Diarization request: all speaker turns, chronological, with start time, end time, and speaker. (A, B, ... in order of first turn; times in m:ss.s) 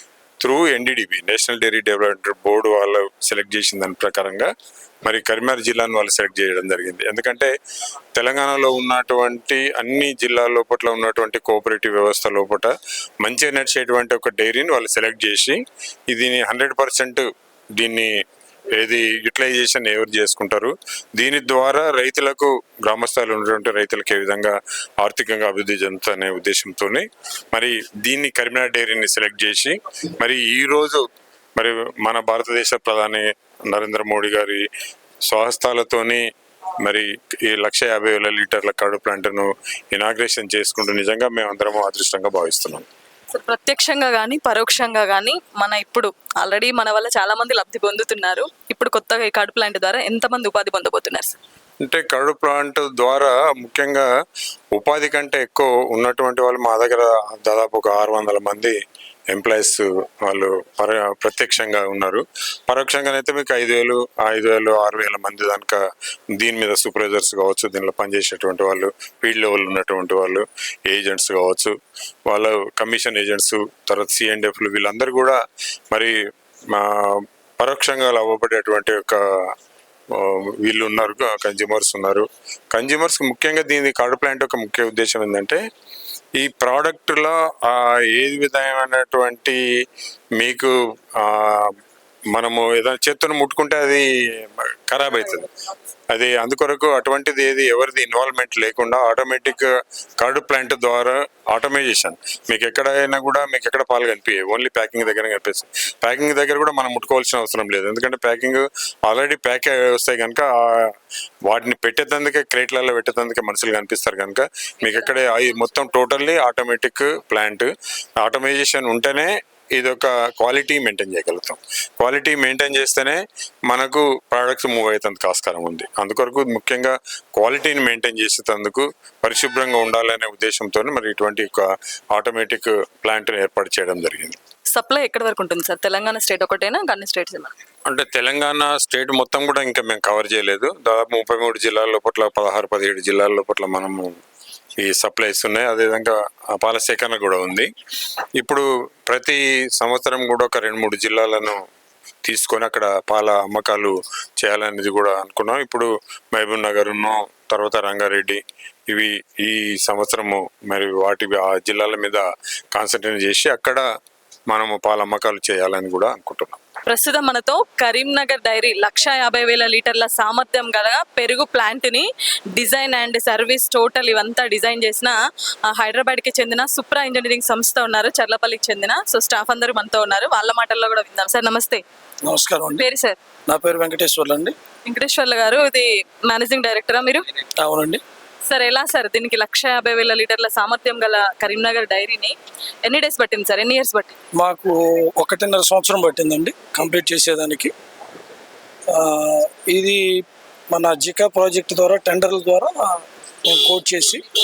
0:00.4-0:04.5 A
0:05.0-0:07.5 A
0:08.2-0:15.6 A
0:16.1-0:17.3 A
0:17.8-0:18.1 A
0:18.8-0:31.0 A
0:31.6-0:34.6 A
0:35.3-0:36.2 A
0:36.8-0:42.9 A
0:43.3-0:51.4 B
0:51.8-0:54.1 A
0:54.8-0:58.8 A
0:59.3-1:05.8 A
1:06.4-1:11.7 A
1:12.3-1:15.4 A
1:16.7-1:19.2 A
1:20.2-1:25.6 A
1:26.4-1:29.6 A
1:30.4-1:31.8 A
1:32.3-1:34.0 A
1:34.6-1:35.5 A
1:36.1-1:39.7 A
1:40.2-1:50.9 A
1:51.5-1:57.7 A
1:58.2-2:14.4 A
2:14.7-2:17.5 B
2:17.9-2:24.2 A
2:24.8-2:27.7 A
2:28.4-2:31.6 A
2:32.2-2:42.2 A
2:42.7-2:43.8 A
2:44.5-2:46.6 A
2:46.9-2:55.2 B
2:55.7-3:01.8 B
3:02.3-3:02.8 C
3:02.8-3:03.2 B
3:03.5-3:04.5 C
3:04.9-3:07.3 B
3:07.6-3:08.0 C
3:08.5-3:14.2 B
3:14.4-3:17.7 C
3:18.9-3:24.2 C